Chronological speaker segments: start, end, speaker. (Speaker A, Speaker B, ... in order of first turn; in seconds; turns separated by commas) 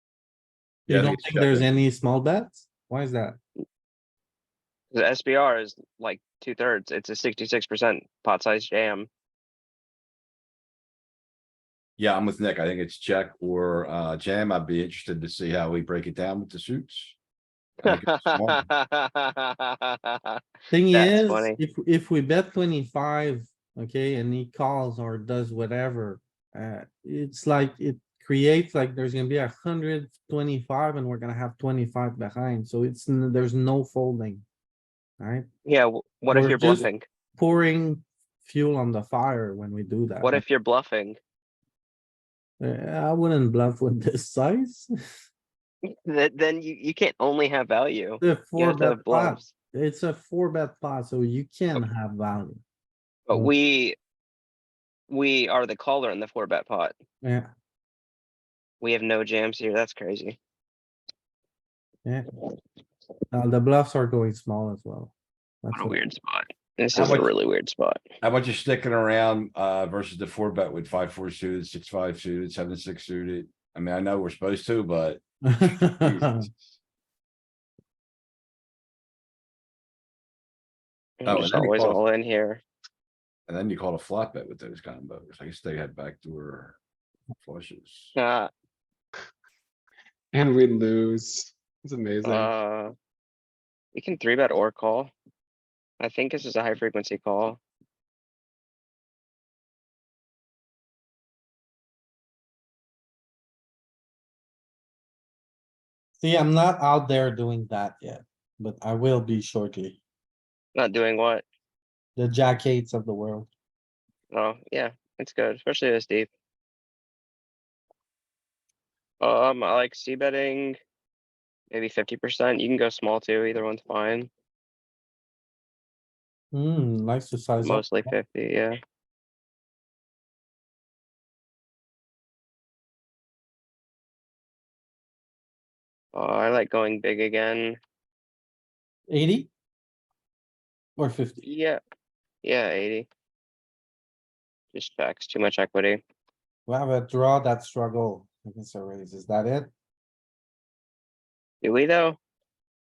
Speaker A: 0.9-3.4, Speaker B: 0.9-1.7, Speaker C: 4.9-9.1, Speaker B: 12.0-17.1, Speaker B: 17.8-18.7, Speaker C: 17.8-21.6, Speaker A: 20.7-34.4, Speaker A: 35.2-35.5, Speaker C: 35.6-37.0, Speaker A: 36.3-40.4, Speaker C: 40.2-41.2, Speaker A: 42.6-44.9, Speaker C: 46.1-49.5, Speaker A: 48.2-52.6, Speaker C: 53.3-54.0, Speaker C: 55.1-56.9, Speaker A: 57.2-57.5, Speaker C: 58.8-60.4, Speaker A: 63.3-66.0, Speaker C: 65.7-68.0, Speaker B: 66.9-67.3, Speaker B: 68.2-76.6, Speaker A: 75.4-76.5, Speaker C: 81.2-82.6, Speaker B: 81.2-82.0, Speaker B: 83.5-86.8, Speaker B: 87.4-88.1, Speaker C: 88.1-88.5, Speaker D: 90.3-92.5, Speaker C: 92.2-92.9, Speaker C: 93.9-95.1, Speaker C: 96.0-97.6, Speaker A: 106.2-110.0, Speaker C: 110.7-111.4, Speaker A: 112.2-113.5, Speaker C: 114.3-116.3, Speaker C: 119.2-120.8, Speaker C: 121.7-124.3, Speaker A: 126.5-128.1, Speaker C: 127.6-128.8, Speaker C: 136.1-137.8, Speaker A: 139.1-139.5, Speaker A: 141.0-141.4, Speaker C: 141.4-141.8, Speaker C: 142.4-143.1, Speaker C: 144.7-146.0, Speaker A: 146.7-149.7, Speaker C: 151.6-152.2